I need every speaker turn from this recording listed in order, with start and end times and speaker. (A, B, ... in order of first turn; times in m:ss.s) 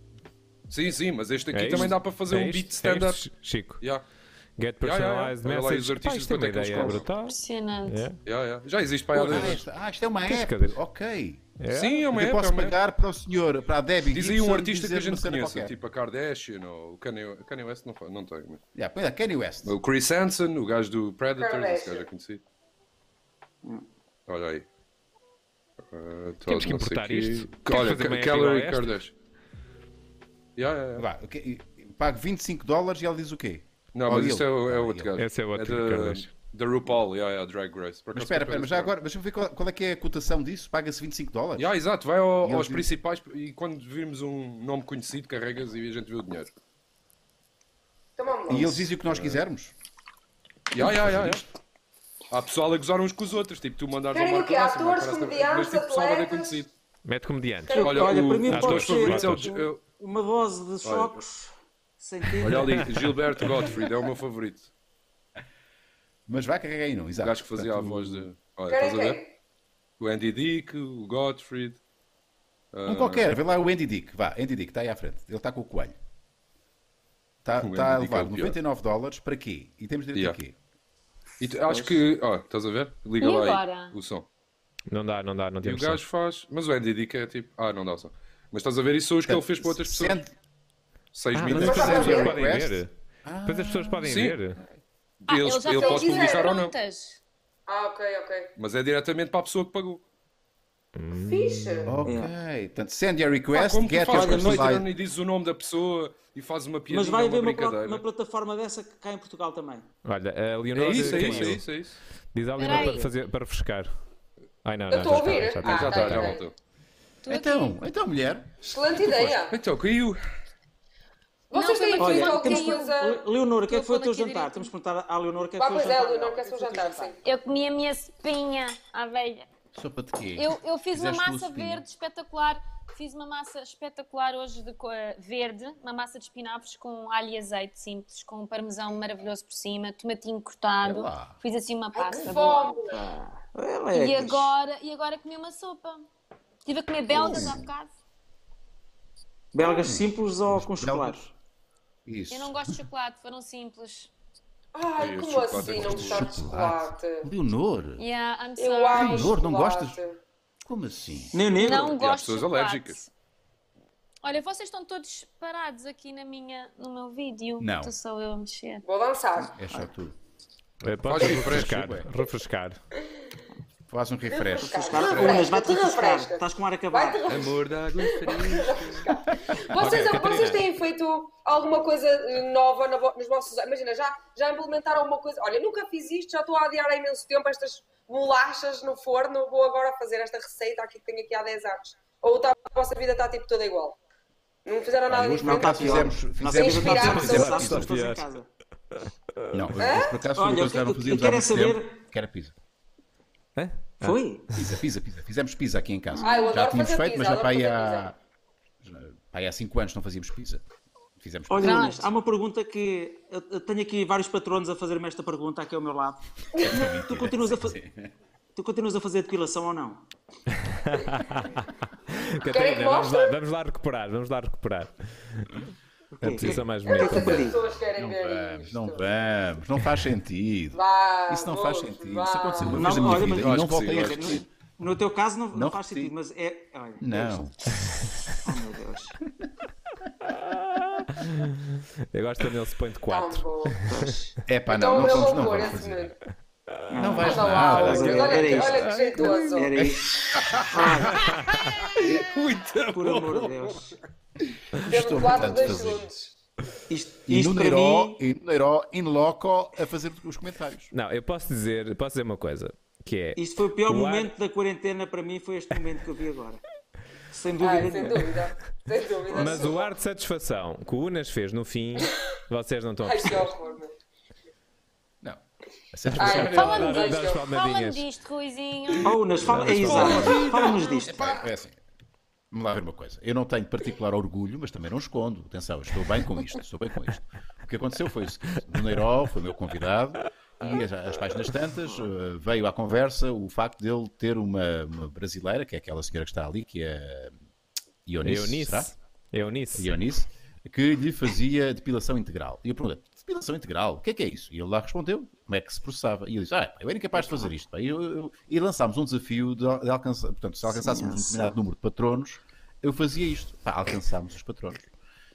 0:00.7-0:03.2 A
0:01.5-0:03.8 B
0:04.6-0:08.2 B
0:04.8-0:07.0 A
0:07.2-0:08.1 C
0:08.2-0:09.6 A
0:09.1-0:11.5 D
0:10.3-0:10.8 B
0:11.6-0:12.0 B
0:11.7-0:12.8 A
0:12.1-0:15.8 D
0:14.1-0:18.6 A
0:18.8-0:19.8 D
0:19.6-0:22.4 A
0:21.4-0:22.1 E
0:24.3-0:24.6 A
0:25.9-0:29.1 A
0:26.4-0:28.9 B
0:30.6-0:31.1 A
0:31.0-0:35.1 D
0:33.9-0:38.9 A
0:35.2-0:36.3 B
0:38.1-0:41.7 D
0:41.6-0:46.5 A
0:42.4-0:42.9 D
0:48.2-0:48.9 E
0:48.5-0:49.7 D
0:49.1-0:49.4 A
0:50.7-0:51.4 A
0:50.8-0:51.4 D
0:52.3-0:56.7 A
0:54.1-0:56.6 E
0:57.0-0:57.8 B
0:57.7-0:58.3 E
0:57.7-1:02.9 F
0:57.8-0:59.8 A
0:58.4-0:59.5 B
1:00.8-1:01.2 A
1:02.4-1:04.7 A
1:06.3-1:08.3 D
1:07.2-1:09.2 A
1:08.7-1:09.3 E
1:10.0-1:11.8 A
1:12.7-1:13.3 A
1:12.9-1:16.0 D
1:17.4-1:20.6 D
1:17.6-1:18.6 A
1:21.4-1:24.2 A
1:21.7-1:22.0 F
1:23.2-1:23.9 C
1:24.9-1:26.0 B
1:25.6-1:30.2 A
1:29.3-1:30.3 D
1:31.1-1:32.2 A
1:31.3-1:32.9 B
1:31.4-1:34.2 D
1:31.6-1:32.4 E
1:33.5-1:34.6 B
1:34.0-1:34.4 A
1:35.2-1:36.7 A
1:35.3-1:37.2 C
1:35.7-1:36.6 E
1:37.7-1:38.5 E
1:38.6-1:40.0 A
1:41.0-1:41.9 B
1:41.2-1:42.0 E
1:41.9-1:44.9 D
1:42.0-1:42.3 F
1:43.5-1:48.0 A
1:44.1-1:44.7 F
1:46.9-1:49.9 F
1:50.0-1:51.7 B
1:50.7-1:52.0 A
1:51.0-1:51.4 F
1:52.3-1:53.9 B
1:52.6-1:53.0 C
1:52.6-1:53.1 F
1:54.6-1:56.4 B
1:54.9-1:56.4 E
1:55.6-1:56.6 A
1:57.2-1:57.8 C
1:57.3-1:59.4 D
1:58.6-1:59.6 E
1:59.5-2:00.2 A
2:01.5-2:03.0 C
2:01.5-2:03.2 E
2:02.0-2:07.2 F
2:03.7-2:04.7 C
2:05.6-2:07.2 E
2:07.2-2:09.5 C
2:09.7-2:11.8 D
2:10.4-2:22.8 C
2:20.8-2:21.4 D
2:21.9-2:23.0 E
2:22.9-2:24.5 F
2:23.9-2:26.0 C
2:26.7-2:27.9 C
2:27.1-2:27.7 D
2:29.5-2:31.2 F
2:29.8-2:31.3 D
2:32.0-2:32.8 D
2:32.3-2:34.1 C
2:34.8-2:37.3 E
2:35.0-2:36.3 A
2:35.6-2:38.0 D
2:38.0-2:39.4 C
2:38.6-2:40.2 E
2:38.9-2:40.0 D
2:40.6-2:41.4 D
2:41.3-2:42.0 F
2:41.5-2:43.1 C
2:41.8-2:43.0 A
2:44.2-2:48.8 C
2:47.6-2:47.9 D
2:48.8-2:49.7 E
2:49.6-2:50.2 D
2:50.8-2:52.1 D
2:50.8-2:52.8 B
2:51.1-2:51.7 A
2:53.9-2:55.3 D
2:54.3-3:14.0 E
2:54.6-2:57.3 F
2:55.0-2:55.4 A
2:57.3-2:59.2 A
2:59.5-2:59.8 D
2:59.8-3:00.6 B
3:14.6-3:17.8 E
3:15.1-3:17.9 D
3:15.4-3:18.5 F
3:16.8-3:18.3 B
3:18.9-3:19.7 B
3:19.5-3:22.5 D
3:19.8-3:20.2 E
3:20.3-3:22.0 F
3:23.6-3:24.7 B
3:24.0-3:24.5 F
3:24.5-3:28.2 D
3:26.2-3:26.5 F
3:26.2-3:28.1 E
3:28.8-3:30.6 D
3:31.2-3:31.8 D
3:31.5-3:37.8 F
3:31.6-3:32.1 C
3:36.6-3:36.8 E
3:36.6-3:38.1 D
3:38.6-3:40.0 F
3:40.6-3:45.6 B
3:42.5-3:43.4 E
3:46.2-3:47.6 F
3:46.2-3:46.6 D
3:46.2-3:47.5 B
3:46.8-3:49.0 E
3:47.8-3:54.4 D
3:50.7-3:53.0 E
3:52.6-3:57.4 F
3:53.1-3:54.5 A
3:55.5-3:56.1 D
3:57.0-3:57.5 D
3:57.8-3:58.3 B
3:58.4-3:59.2 F
4:00.3-4:04.2 B
4:03.1-4:03.8 E
4:03.9-4:04.4 F
4:04.4-4:06.2 D
4:04.7-4:06.2 E
4:06.9-4:08.9 F
4:06.9-4:10.1 D
4:07.1-4:09.7 E
4:09.5-4:10.2 F
4:10.3-4:13.9 A
4:10.7-4:11.3 F
4:11.2-4:11.9 B
4:12.9-4:14.0 F
4:14.8-4:16.1 D
4:14.9-4:16.3 E
4:16.9-4:18.2 F
4:17.3-4:20.9 D
4:20.9-4:24.3 B
4:23.4-4:26.6 F
4:27.3-4:28.5 F
4:27.6-4:29.9 E
4:29.3-4:33.5 B
4:33.0-4:33.9 E
4:35.9-4:37.1 D
4:36.2-4:38.0 B
4:36.2-4:37.5 E
4:36.5-4:39.2 C
4:39.0-4:41.3 F
4:39.5-4:40.2 B
4:39.9-4:40.8 A
4:40.2-4:41.4 E
4:41.0-4:41.8 D
4:42.5-4:57.4 D
4:58.1-4:58.9 D
4:58.2-4:59.9 B
4:59.8-5:14.8 D
5:07.2-5:07.5 F
5:10.7-5:11.6 F